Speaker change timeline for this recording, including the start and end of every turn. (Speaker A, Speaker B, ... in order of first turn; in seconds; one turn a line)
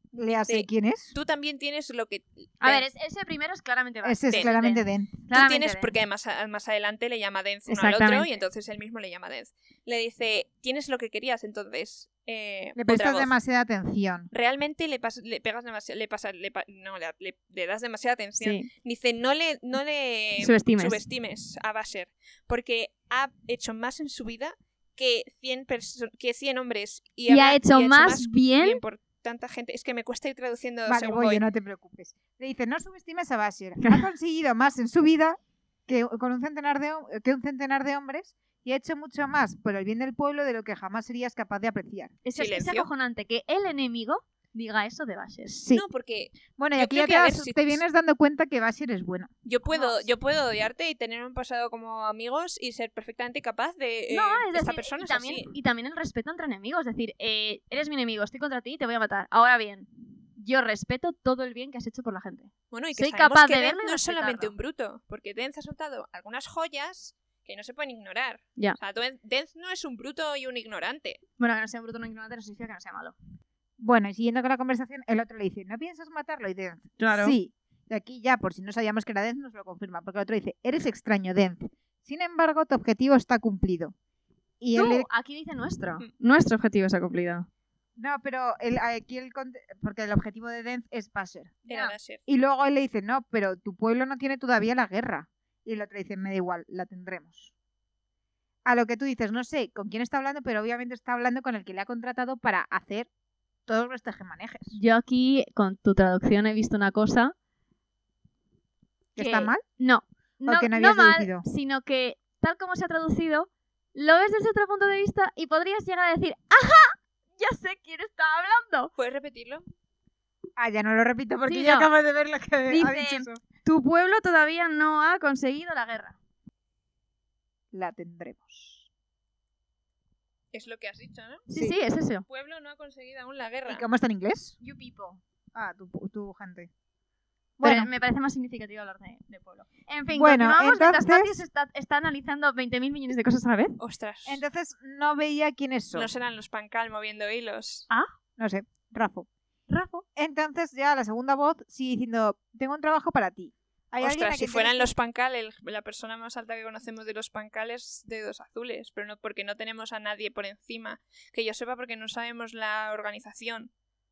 Speaker A: 0.1-1.1
Speaker B: 0.3-2.8
Speaker C: 2.6-5.9
Speaker A: 4.0-5.2
Speaker B: 5.3-13.3
Speaker C: 7.7-8.3
Speaker A: 12.8-14.3
Speaker B: 14.3-31.4
Speaker C: 18.4-18.7
Speaker C: 20.4-21.0
Speaker C: 27.3-28.8
Speaker A: 30.9-42.1
Speaker C: 42.2-45.6
Speaker B: 42.3-42.9
Speaker A: 45.5-45.8
Speaker B: 45.7-47.8
Speaker A: 46.5-49.3
Speaker B: 49.4-55.5
Speaker C: 49.7-50.1
Speaker C: 54.1-64.5
Speaker B: 62.7-71.2
Speaker C: 71.4-73.2
Speaker A: 73.8-83.9
Speaker C: 77.0-77.3
Speaker A: 84.6-85.1
Speaker C: 84.7-87.5
Speaker A: 88.0-91.6
Speaker B: 91.7-92.2
Speaker C: 91.7-91.9
Speaker A: 92.3-97.5
Speaker A: 98.6-103.1
Speaker A: 103.7-104.8
Speaker C: 104.7-107.3
Speaker A: 109.1-109.6
Speaker C: 109.2-118.9
Speaker A: 110.4-111.4
Speaker B: 119.0-119.6
Speaker A: 120.6-123.4
Speaker C: 121.5-121.9
Speaker C: 122.7-126.2
Speaker A: 127.7-128.9
Speaker B: 130.5-131.4
Speaker C: 131.5-132.2
Speaker B: 132.3-133.8
Speaker A: 133.7-134.6
Speaker C: 134.6-135.2
Speaker A: 135.5-136.7
Speaker A: 137.6-137.9
Speaker C: 137.6-143.8
Speaker A: 140.1-141.4
Speaker B: 143.8-144.4
Speaker A: 144.2-146.1
Speaker B: 145.9-147.9
Speaker A: 148.4-149.3
Speaker C: 149.7-150.0
Speaker A: 150.1-154.9
Speaker B: 154.0-163.7